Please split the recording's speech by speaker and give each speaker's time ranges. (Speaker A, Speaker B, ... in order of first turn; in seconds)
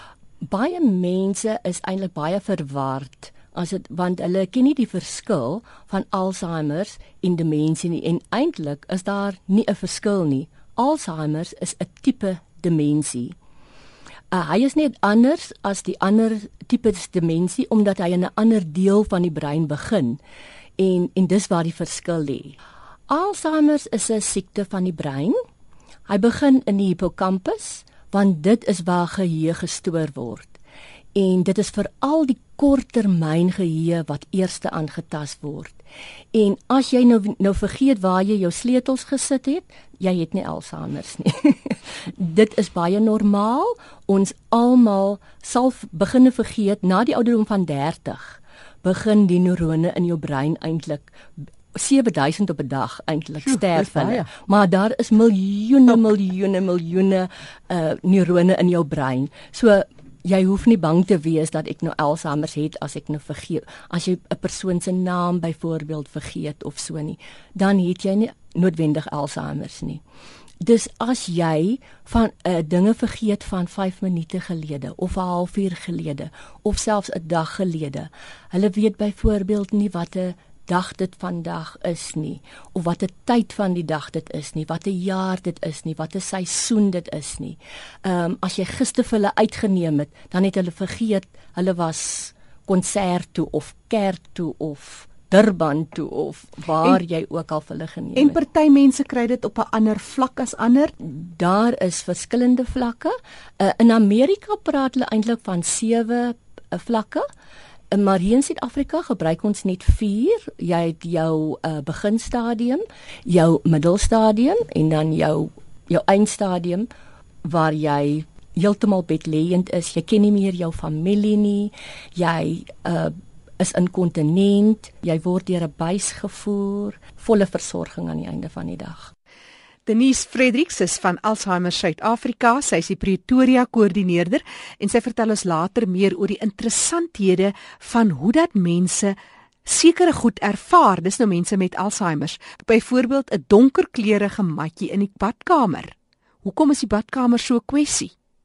Speaker A: 0.4-13.4, 14.3-20.2, 20.8-22.6, 23.1-25.4, 26.1-30.6, 31.1-35.8, 36.3-51.1, 51.7-70.0, 70.6-98.4, 101.0-107.3, 107.9-116.9, 117.4-129.1
Speaker B: 53.5-54.3, 98.2-100.9, 129.9-148.1